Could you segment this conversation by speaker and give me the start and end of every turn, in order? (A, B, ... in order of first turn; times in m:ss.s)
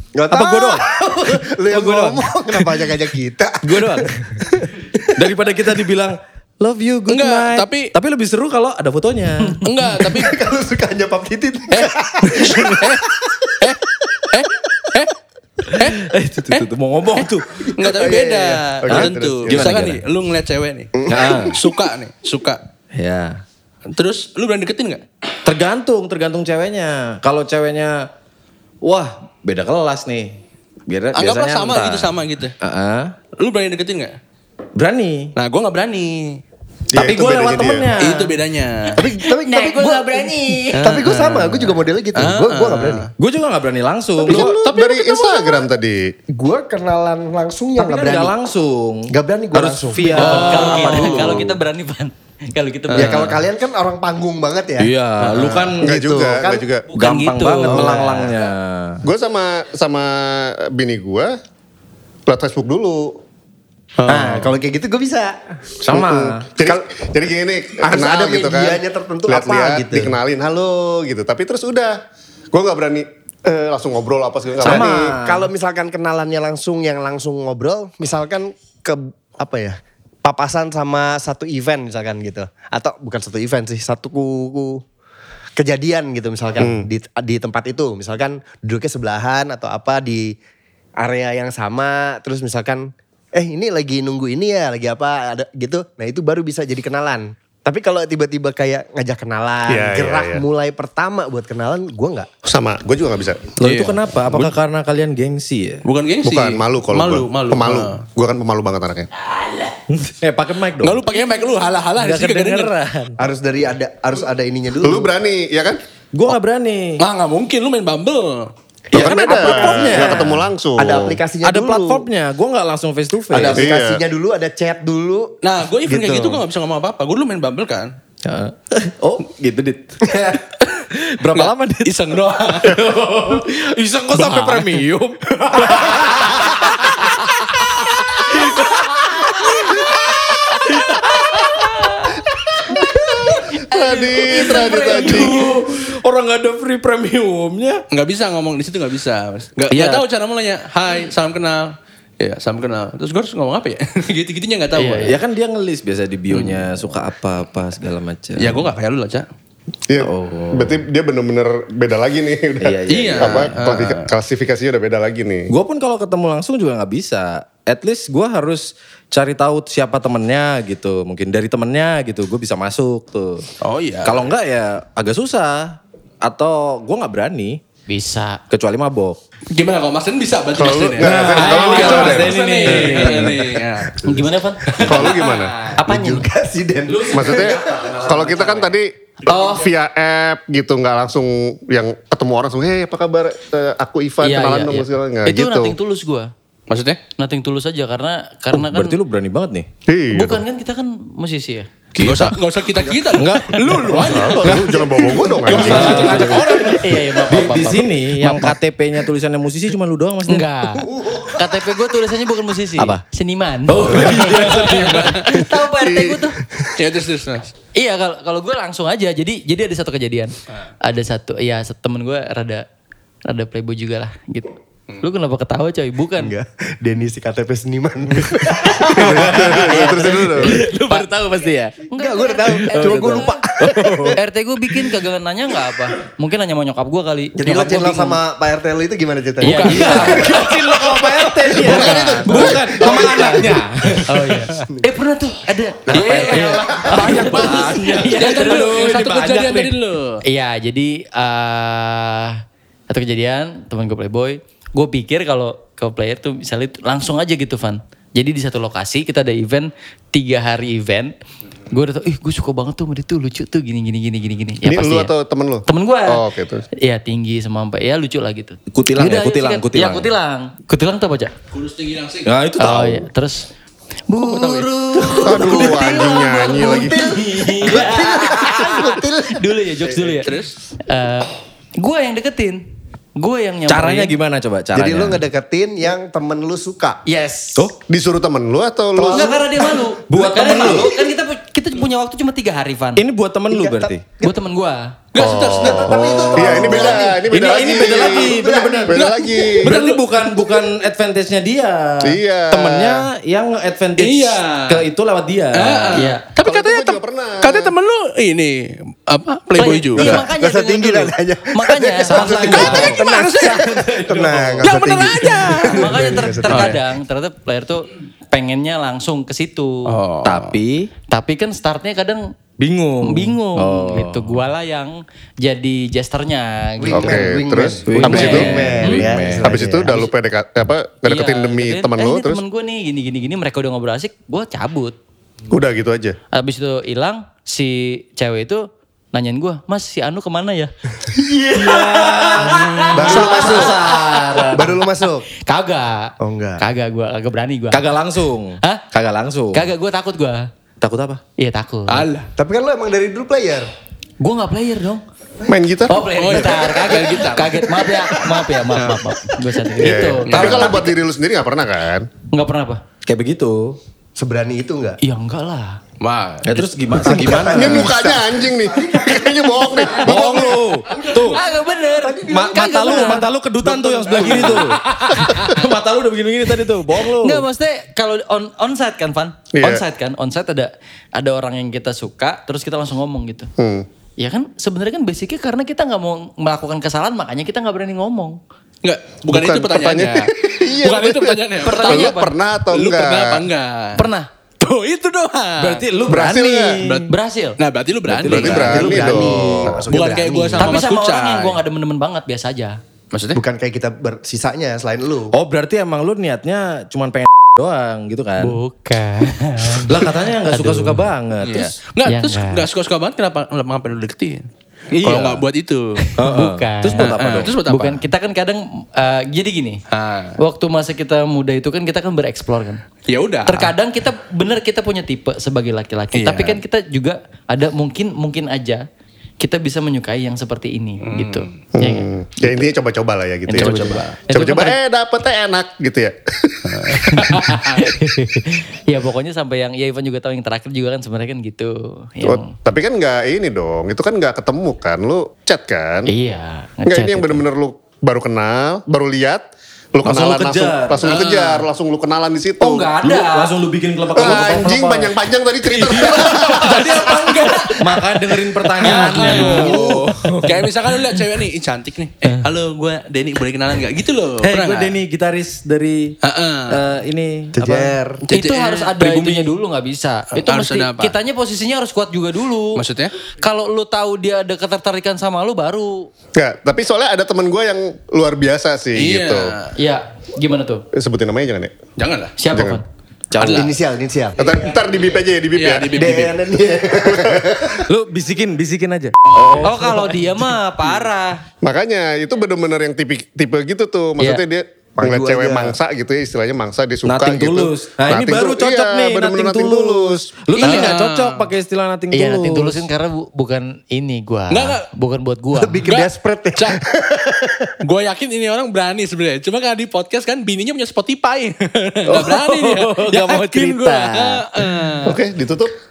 0:00.1-0:05.1 A
0:00.3-0:00.9 B
0:01.7-0:02.8 B
0:03.6-0:04.2 B
0:05.1-0:09.7 B
0:07.1-0:07.9 C
0:09.6-0:10.4 C
0:10.1-0:12.9 A
0:11.7-0:15.1 C
0:15.6-0:17.7 B
0:15.7-0:16.6 C
0:17.2-0:22.6 C
0:17.7-0:18.8 A
0:18.9-0:20.0 B
0:18.9-0:19.8 D
0:21.0-0:21.5 A
0:21.1-0:21.6 B
0:22.9-0:23.4 B
0:23.9-0:25.0 C
0:25.4-0:28.1 B
0:28.8-0:33.1 B
0:31.1-0:32.5 C
0:33.4-0:34.2 C
0:34.8-0:35.3 B
0:35.4-0:36.4 C
0:36.9-0:38.0 D
0:36.9-0:38.4 B
0:38.0-0:39.0 C
0:39.0-0:43.1 A
0:39.2-0:40.8 E
0:40.7-0:43.1 C
0:43.2-0:44.6 B
0:44.3-0:45.5 C
0:44.3-0:46.1 D
0:44.3-0:44.6 A
0:46.3-0:48.3 A
0:47.8-0:51.5 B
0:49.1-0:50.5 A
0:50.1-0:51.5 C
0:50.1-0:53.3 E
0:52.9-0:53.4 C
0:53.0-0:54.9 A
0:54.8-0:55.9 B
0:55.2-0:55.5 C
0:55.7-0:56.7 A
0:55.8-0:56.9 D
0:56.9-0:58.2 E
0:56.9-0:59.0 B
0:57.6-0:58.3 A
0:59.0-1:01.4 D
1:02.3-1:03.2 D
1:04.0-1:04.4 C
1:04.1-1:05.4 A
1:04.1-1:04.4 B
1:05.8-1:06.5 B
1:05.9-1:12.0 D
1:06.6-1:06.8 A
1:07.8-1:10.2 A
1:12.5-1:15.1 D
1:14.6-1:24.8 A
1:14.6-1:15.5 B
1:25.6-1:30.4 A
1:26.6-1:26.9 D
1:31.0-1:42.3 A
1:39.7-1:40.4 D
1:42.4-1:43.6 D
1:43.6-1:45.8 B
1:43.6-1:44.5 C
1:45.8-1:48.0 C
1:46.2-1:49.1 D
1:49.9-1:51.0 B
1:50.8-1:52.7 C
1:52.0-1:53.2 B
1:53.2-1:55.1 A
1:54.8-1:55.8 D
1:56.1-1:57.0 B
1:57.0-1:58.5 C
1:58.9-2:00.4 B
1:58.9-2:02.0 A
1:58.9-2:01.2 D
2:01.4-2:03.7 B
2:03.3-2:05.3 A
2:03.6-2:04.0 D
2:05.4-2:07.9 C
2:05.9-2:06.4 A
2:08.2-2:11.9 B
2:10.0-2:10.4 A
2:11.3-2:12.8 C
2:12.5-2:21.6 B
2:14.1-2:14.8 C
2:15.5-2:16.4 C
2:19.2-2:19.8 E
2:21.1-2:25.6 E
2:22.7-2:25.5 D
2:24.7-2:27.8 B
2:27.9-2:35.2 C
2:29.7-2:30.0 B
2:34.7-2:35.2 E
2:35.0-2:38.6 B
2:36.3-2:36.6 C
2:38.4-2:39.3 C
2:39.9-2:45.5 D
2:40.0-2:40.8 B
2:42.6-2:43.5 B
2:42.9-2:44.1 C
2:45.5-2:53.5 B
2:53.6-2:54.2 C
2:54.0-2:57.6 B
2:57.9-2:58.4 E
2:58.5-2:59.2 B
2:59.5-3:04.0 C
3:00.6-3:03.2 D
3:01.0-3:03.6 B
3:01.8-3:03.2 E
3:04.0-3:04.9 E
3:04.7-3:05.6 C
3:04.8-3:05.6 D
3:05.0-3:05.7 B
3:05.8-3:06.2 E
3:05.8-3:07.7 A
3:06.9-3:08.7 B
3:07.1-3:15.8 D
3:09.2-3:09.7 E
3:14.2-3:16.3 E
3:16.7-3:17.0 C
3:17.2-3:19.0 E
3:18.5-3:19.7 B
3:19.9-3:20.4 D
3:20.1-3:21.7 E
3:21.9-3:22.4 B
3:22.0-3:26.8 C
3:23.2-3:24.8 B
3:24.0-3:26.5 D
3:25.5-3:30.5 B
3:26.8-3:28.5 E
3:30.3-3:36.4 E
3:30.9-3:31.6 A
3:32.8-3:33.0 B
3:33.7-3:35.3 B
3:34.2-3:35.3 C
3:35.5-3:36.3 D
3:36.8-3:37.5 C
3:37.8-3:42.6 E
3:43.2-3:46.3 E
3:46.2-3:50.2 A
3:48.6-3:51.1 E
3:48.9-3:51.7 B
3:48.9-3:50.6 D
3:51.9-3:53.4 E
3:51.9-3:54.2 A
3:52.6-3:54.2 B
3:54.2-3:58.2 E
3:57.4-4:00.5 A
3:59.4-4:00.8 C
3:59.4-4:00.5 E
3:59.7-4:04.6 B
4:01.5-4:02.6 C
4:01.6-4:03.6 D
4:02.4-4:03.5 E
4:04.0-4:08.9 E
4:05.9-4:10.2 C
4:06.0-4:09.7 B
4:06.1-4:07.5 A
4:10.2-4:21.1 E
4:21.7-4:25.1 E
4:24.6-4:26.6 D
4:25.7-4:26.2 E
4:26.8-4:31.3 E
4:28.7-4:30.1 B
4:31.5-4:32.3 C
4:32.2-4:33.1 B
4:32.6-4:33.4 E
4:34.1-4:40.3 E
4:34.2-4:34.7 C
4:35.2-4:37.1 D
4:36.6-4:39.5 A
4:40.2-4:40.5 C
4:40.8-4:42.6 E
4:43.2-4:44.1 E
4:43.7-4:45.2 B
4:44.7-4:47.0 A
4:47.0-4:47.7 E
4:47.9-4:49.4 D
4:49.0-4:50.7 A
4:49.0-4:53.0 E
4:50.1-4:51.0 B
4:53.0-4:54.0 B
4:53.5-4:54.3 A
4:54.2-4:54.9 E
4:55.1-4:56.5 C
4:55.2-4:59.8 D
4:55.6-4:59.1 A
4:56.4-4:57.0 E
4:56.5-4:59.0 B
4:58.9-5:00.0 C
4:59.6-5:06.0 B
5:02.0-5:03.1 D
5:04.0-5:04.8 C
5:05.5-5:10.2 C
5:05.9-5:06.2 E
5:06.4-5:07.7 D
5:09.6-5:12.9 E
5:10.0-5:16.8 A
5:12.1-5:14.7 B
5:12.5-5:16.8 C
5:15.6-5:19.9 E
5:19.9-5:20.6 C
5:20.2-5:20.9 B
5:21.1-5:22.3 E
5:22.6-5:24.4 B
5:23.0-5:27.4 E
5:26.8-5:30.1 A
5:27.0-5:28.5 D
5:27.8-5:29.6 B
5:28.0-5:29.0 E
5:29.4-5:32.4 D
5:31.0-5:35.0 E
5:35.5-5:36.2 D
5:36.3-5:47.9 E
5:41.5-5:44.7 B
5:42.4-5:43.6 C
5:42.9-5:43.8 A
5:44.5-5:45.3 A
5:46.2-5:46.6 A
5:47.7-5:49.7 B
5:49.5-5:50.5 E
5:50.8-5:51.2 B
5:51.4-5:52.1 E
5:51.9-5:52.3 C
5:52.4-5:53.7 A
5:54.2-5:55.0 E
5:55.5-5:56.1 D
5:55.9-6:01.0 E
5:56.2-5:57.7 C
5:58.7-5:59.0 C
5:59.8-6:02.1 D
6:00.0-6:00.8 A
6:00.2-6:00.7 C
6:02.3-6:02.8 E
6:03.0-6:03.8 B
6:04.2-6:05.0 A
6:05.0-6:05.8 E
6:06.0-6:06.7 C
6:06.4-6:08.1 B
6:07.0-6:14.6 A
6:07.5-6:10.7 D
6:10.0-6:11.4 B
6:11.2-6:13.3 E
6:12.3-6:14.8 B
6:14.2-6:15.5 E
6:15.3-6:17.4 B
6:16.9-6:23.5 E
6:19.5-6:19.8 D
6:23.6-6:23.8 D
6:24.2-6:28.4 E
6:28.8-6:32.2 C
6:29.3-6:33.5 D
6:31.6-6:32.4 E
6:32.7-6:34.0 C
6:34.0-6:34.3 E
6:34.6-6:35.8 C
6:35.6-6:37.1 B
6:36.0-6:36.8 D
6:36.1-6:36.5 E
6:36.8-6:39.1 C
6:37.1-6:37.6 E
6:38.1-6:38.8 B
6:38.2-6:39.8 D
6:38.5-6:40.8 A
6:39.9-6:41.6 C
6:40.6-6:42.8 E
6:43.1-6:43.4 C
6:43.3-6:45.3 A
6:45.3-6:48.6 B
6:48.4-6:51.1 E
6:49.7-6:51.7 B
6:51.4-6:54.4 C
6:52.0-6:52.7 E
6:54.9-6:55.4 B
6:55.0-6:56.1 C
6:56.0-6:59.8 E
6:56.2-6:57.6 B
6:57.0-6:58.0 C
6:59.9-7:00.4 C
7:00.4-7:02.8 E
7:03.1-7:03.7 C
7:03.5-7:08.8 E
7:06.1-7:06.6 C
7:09.4-7:12.6 E
7:11.0-7:11.5 C
7:11.7-7:17.3 D
7:13.5-7:14.8 E
7:13.6-7:14.2 C
7:16.6-7:17.8 C
7:17.1-7:22.5 E
7:22.2-7:26.1 D
7:26.1-7:27.4 E
7:26.9-7:32.9 D
7:30.0-7:31.1 B
7:31.0-7:31.6 C
7:32.6-7:33.5 E
7:33.0-7:35.2 B
7:34.1-7:37.3 D
7:35.7-7:45.0 C
7:36.7-7:40.7 B
7:38.8-7:40.4 E
7:44.4-7:46.1 B
7:46.2-7:46.8 C
7:46.7-7:48.0 B
7:47.6-7:48.2 A
7:48.2-7:48.9 C
7:48.3-7:52.8 E
7:49.0-7:49.5 B
7:50.3-7:51.1 C
7:52.8-7:53.1 C
7:53.4-7:56.1 E
7:56.3-7:59.5 D
7:59.0-7:59.7 C
7:59.7-8:00.8 E
8:00.9-8:01.7 D
8:02.0-8:02.3 C
8:02.4-8:02.8 E
8:02.5-8:02.8 D
8:03.3-8:03.7 B
8:03.4-8:03.7 C
8:03.4-8:04.6 A
8:04.4-8:06.2 D
8:05.5-8:06.4 C
8:05.9-8:07.8 A
8:07.0-8:07.8 D
8:07.9-8:10.4 B
8:09.2-8:09.8 C
8:09.6-8:11.4 E
8:11.6-8:20.3 D
8:15.0-8:15.8 A
8:17.0-8:22.8 B
8:20.5-8:20.9 E
8:20.6-8:21.5 C
8:22.1-8:25.9 E
8:24.5-8:24.8 C
8:25.5-8:27.7 A
8:25.9-8:26.8 C
8:27.8-8:35.2 C
8:32.0-8:34.7 B
8:35.0-8:35.7 D